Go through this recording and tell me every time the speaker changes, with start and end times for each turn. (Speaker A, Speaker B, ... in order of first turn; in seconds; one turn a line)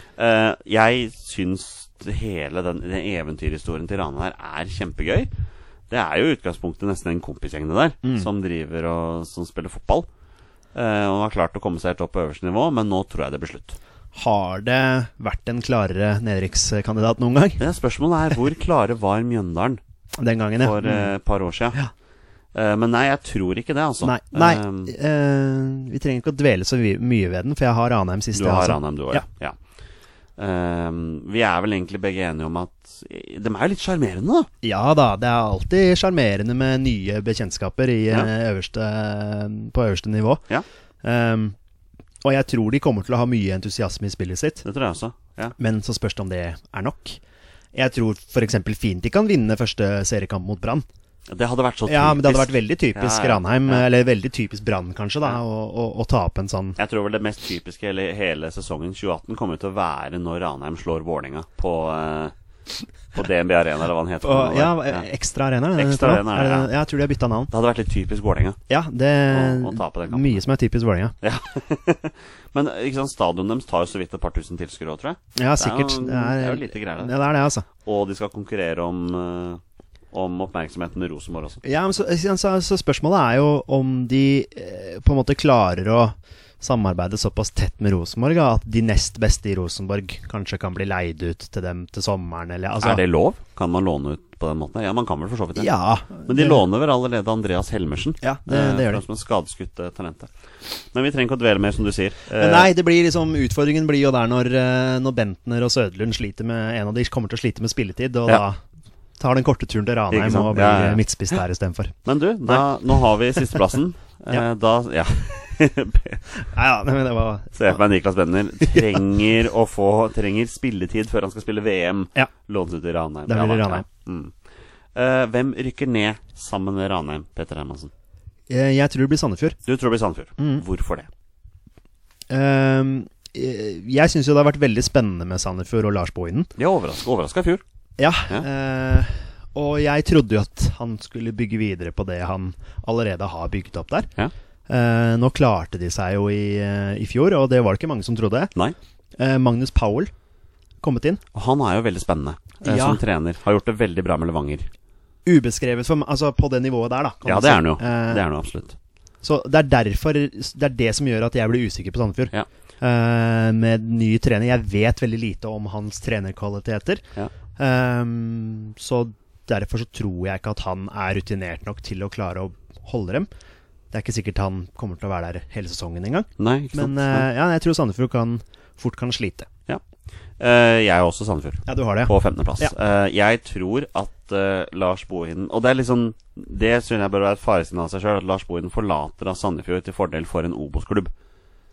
Speaker A: 0.1-5.3
Speaker A: 5.9-10.1
Speaker A: 10.7-13.8
Speaker B: 14.1-17.6
Speaker A: 17.6-19.8
Speaker B: 20.2-21.1
Speaker A: 20.6-21.8
Speaker A: 22.5-24.9
Speaker B: 24.0-29.2
Speaker A: 28.3-29.6
Speaker A: 30.4-34.5
Speaker B: 34.6-40.5
Speaker B: 41.0-41.5
Speaker B: 42.2-44.6
Speaker A: 44.6-45.5
Speaker B: 45.6-47.2
Speaker B: 47.7-50.8
Speaker A: 51.3-53.9
Speaker B: 51.9-56.8
Speaker A: 56.8-62.3
Speaker A: 63.1-65.1
Speaker B: 64.2-67.5
Speaker A: 65.8-66.7
Speaker A: 67.5-68.6
Speaker B: 68.7-71.2
Speaker A: 69.3-70.4
Speaker A: 71.2-77.1
Speaker B: 75.3-77.7
Speaker A: 77.8-81.6
Speaker B: 81.6-93.0
Speaker A: 92.8-100.3
Speaker B: 95.5-96.6
Speaker B: 98.2-99.0
Speaker A: 100.9-102.7
Speaker B: 102.3-108.6
Speaker B: 109.2-112.6
Speaker A: 110.1-111.0
Speaker A: 112.0-116.2
Speaker B: 116.3-117.8
Speaker A: 117.5-124.3
Speaker B: 118.6-118.9
Speaker B: 123.3-123.8
Speaker A: 124.9-127.9
Speaker B: 128.5-129.6
Speaker A: 129.6-131.1
Speaker B: 130.4-130.6
Speaker B: 132.3-136.5
Speaker A: 136.6-137.6
Speaker B: 138.0-144.1
Speaker B: 144.7-148.5
Speaker B: 149.2-150.1
Speaker B: 150.8-151.2
Speaker A: 151.3-154.7
Speaker B: 152.6-153.0
Speaker B: 155.2-158.2
Speaker A: 157.2-158.8
Speaker B: 159.2-167.0
Speaker B: 167.6-173.3
Speaker B: 173.9-179.5
Speaker A: 176.4-177.3
Speaker A: 180.4-191.1
Speaker B: 181.7-182.7